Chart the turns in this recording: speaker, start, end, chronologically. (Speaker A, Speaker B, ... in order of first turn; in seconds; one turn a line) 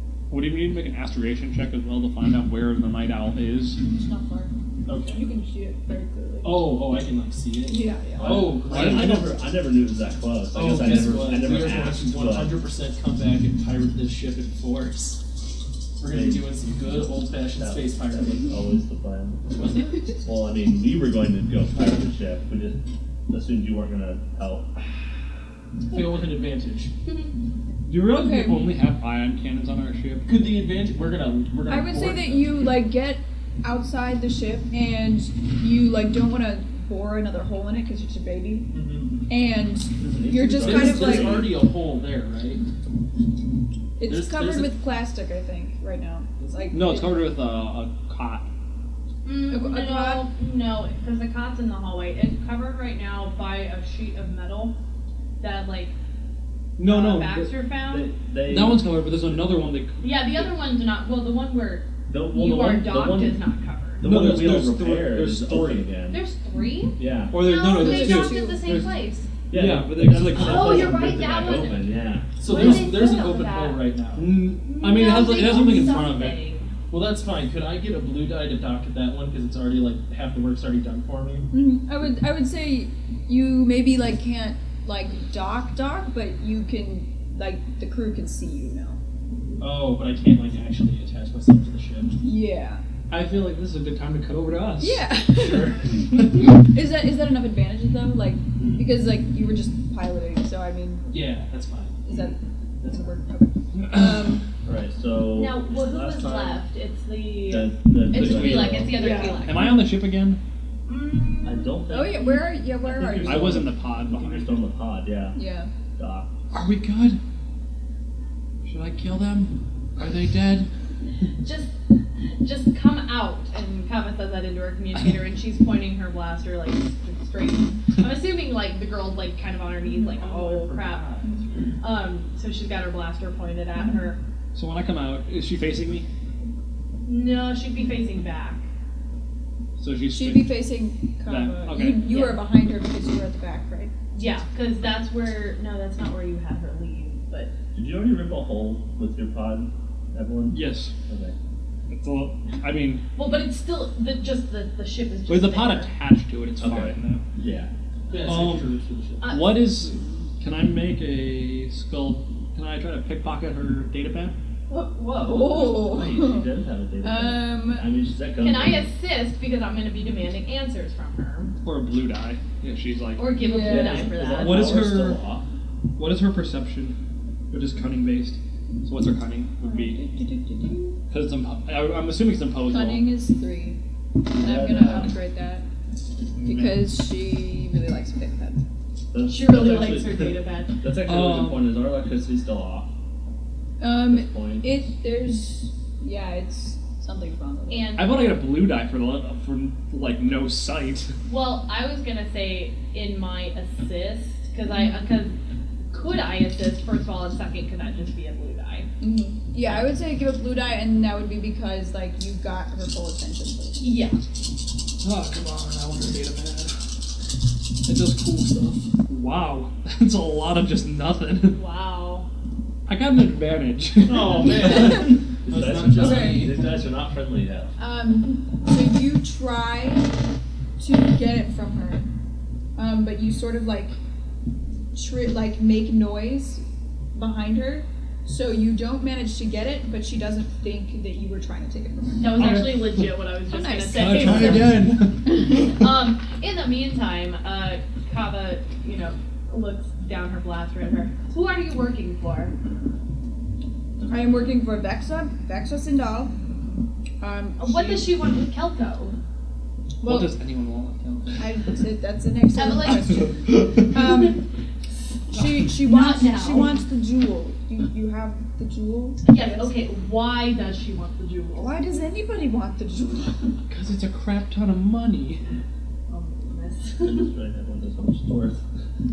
Speaker A: 0.3-3.8
Speaker B: 3.8-4.5
Speaker C: 4.9-5.2
Speaker B: 5.1-6.7
Speaker C: 6.4-9.3
Speaker B: 7.7-8.5
Speaker D: 8.2-12.5
Speaker A: 8.5-9.3
Speaker C: 10.5-15.2
Speaker C: 16.0-18.5
Speaker D: 16.1-16.4
Speaker D: 17.6-19.4
Speaker C: 19.6-19.8
Speaker D: 20.2-24.8
Speaker C: 25.9-26.9
Speaker A: 27.9-30.3
Speaker B: 28.0-28.8
Speaker C: 30.2-32.7
Speaker B: 31.7-38.7
Speaker C: 38.7-39.1
Speaker B: 39.3-41.4
Speaker D: 40.0-41.5
Speaker C: 40.5-42.6
Speaker B: 44.0-47.2
Speaker C: 44.1-44.7
Speaker C: 46.4-46.7
Speaker A: 46.7-48.5
Speaker E: 49.2-54.7
Speaker B: 49.5-50.2
Speaker E: 55.4-55.9
Speaker A: 56.8-57.5
Speaker E: 56.8-58.1
Speaker D: 57.9-58.8
Speaker A: 58.4-60.5
Speaker E: 60.0-64.0
Speaker D: 62.0-63.4
Speaker D: 64.0-66.2
Speaker A: 64.0-65.9
Speaker E: 66.1-69.3
Speaker D: 67.0-67.3
Speaker A: 67.3-68.9
Speaker B: 67.7-68.9
Speaker D: 69.5-72.3
Speaker A: 69.5-71.0
Speaker E: 70.3-71.9
Speaker C: 72.4-74.3
Speaker E: 72.4-73.8
Speaker A: 72.5-72.9
Speaker A: 74.1-76.4
Speaker E: 74.6-76.7
Speaker C: 76.9-81.5
Speaker B: 81.5-89.0
Speaker C: 89.6-92.2
Speaker B: 92.2-92.8
Speaker A: 93.1-95.0
Speaker B: 94.8-101.1
Speaker C: 95.3-96.1
Speaker A: 96.1-96.4
Speaker C: 101.1-102.2
Speaker B: 102.0-104.5
Speaker C: 102.8-103.1
Speaker A: 103.8-104.3
Speaker D: 104.6-106.6
Speaker E: 105.3-109.9
Speaker D: 107.5-109.3
Speaker A: 108.1-110.4
Speaker B: 108.9-109.6
Speaker E: 110.9-111.8
Speaker D: 111.4-115.4
Speaker B: 111.9-113.7
Speaker A: 113.2-114.6
Speaker B: 115.3-115.7
Speaker D: 116.0-116.3
Speaker A: 116.5-117.2
Speaker A: 118.6-120.7
Speaker E: 121.4-121.7
Speaker E: 122.4-131.1
Speaker C: 129.8-131.5
Speaker E: 131.8-134.2
Speaker A: 134.5-136.1
Speaker E: 137.1-138.7
Speaker A: 139.8-140.6
Speaker B: 140.1-143.9
Speaker A: 141.3-142.1
Speaker E: 142.0-142.4
Speaker E: 144.1-147.5
Speaker D: 147.7-151.3
Speaker A: 150.5-150.9
Speaker A: 151.9-153.0
Speaker E: 153.2-155.9
Speaker A: 155.3-157.2
Speaker D: 156.6-157.7
Speaker C: 158.1-159.3
Speaker A: 158.2-158.7
Speaker E: 159.2-159.6
Speaker A: 159.2-164.3
Speaker E: 164.7-165.9
Speaker B: 165.2-166.5
Speaker D: 165.6-168.9
Speaker B: 167.0-167.8
Speaker E: 168.4-171.5
Speaker A: 171.6-173.4
Speaker E: 173.2-174.8
Speaker B: 173.4-174.1
Speaker D: 173.6-175.4
Speaker A: 174.3-175.2
Speaker A: 176.0-176.9
Speaker A: 177.5-180.0
Speaker B: 179.6-181.0
Speaker A: 181.1-183.1
Speaker B: 182.6-185.6
Speaker D: 184.3-185.2
Speaker A: 186.4-186.9
Speaker B: 186.4-188.6
Speaker D: 189.1-192.9
Speaker E: 189.3-190.7
Speaker A: 191.0-191.7
Speaker B: 193.8-198.0
Speaker D: 194.1-194.6
Speaker E: 197.7-198.1
Speaker A: 198.0-201.1
Speaker E: 201.3-205.4
Speaker E: 205.9-208.9
Speaker B: 209.0-214.0
Speaker E: 213.8-214.2
Speaker A: 215.0-216.9
Speaker A: 217.8-221.6
Speaker E: 221.5-222.3
Speaker A: 222.9-224.9
Speaker C: 224.0-226.6
Speaker B: 224.5-225.1
Speaker D: 225.5-227.7
Speaker B: 225.9-226.5
Speaker B: 227.8-230.1
Speaker B: 230.8-232.1
Speaker B: 232.7-234.0
Speaker B: 234.9-242.7
Speaker E: 242.2-244.8
Speaker A: 242.3-243.0
Speaker B: 243.5-244.8
Speaker A: 243.9-245.8
Speaker E: 245.5-252.5
Speaker B: 254.1-256.3
Speaker B: 257.2-258.1
Speaker E: 257.6-259.2
Speaker A: 260.0-261.5
Speaker B: 260.0-260.3
Speaker B: 261.4-264.4
Speaker E: 262.6-263.2
Speaker A: 263.2-263.9
Speaker E: 263.9-264.3
Speaker B: 265.3-269.7
Speaker E: 265.7-266.8
Speaker E: 269.2-271.8
Speaker B: 271.6-273.6
Speaker A: 273.7-275.4
Speaker E: 276.1-277.3
Speaker D: 277.0-278.6